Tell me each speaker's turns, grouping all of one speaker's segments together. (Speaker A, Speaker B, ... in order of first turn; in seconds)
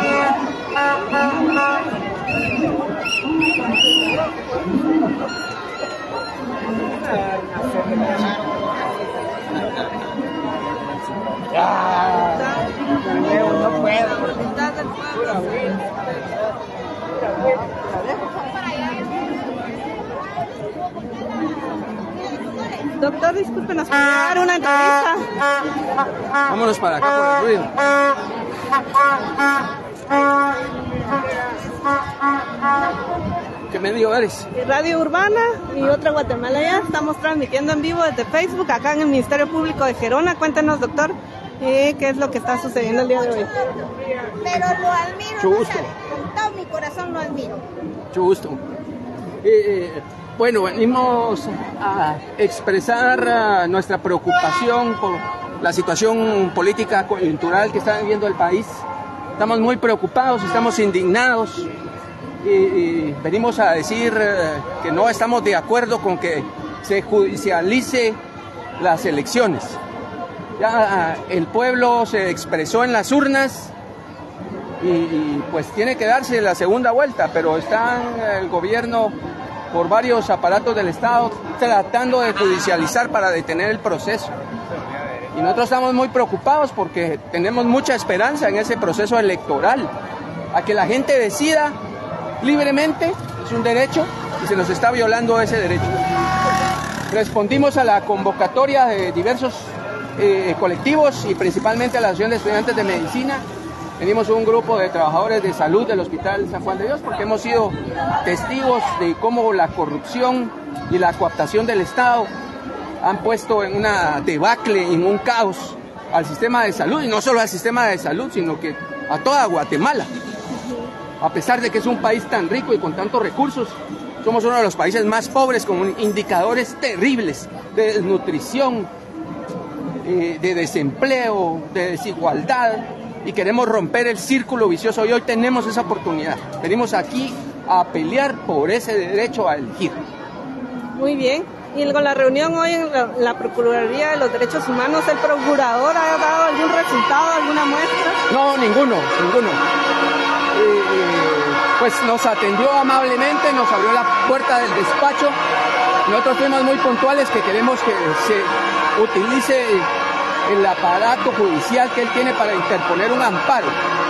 Speaker A: 12.0-15.5, 23.0-25.2, 34.5-43.5, 140.9-148.2
Speaker B: 18.4-19.3, 22.2-22.8, 44.4-47.6
Speaker C: 26.5-27.7, 33.7-34.5, 45.4-45.9, 48.1-48.6, 49.4-58.8, 59.4-61.7, 62.4-68.2, 68.8-69.8, 70.6-73.7, 74.8-79.1, 79.7-84.3, 85.3-89.9, 90.5-91.8, 92.4-96.0, 97.1-103.4, 104.0-112.3, 113.0-120.1, 121.2-128.9, 130.0-140.0, 148.3-149.6, 150.5-155.4, 156.1-159.9, 160.4-163.8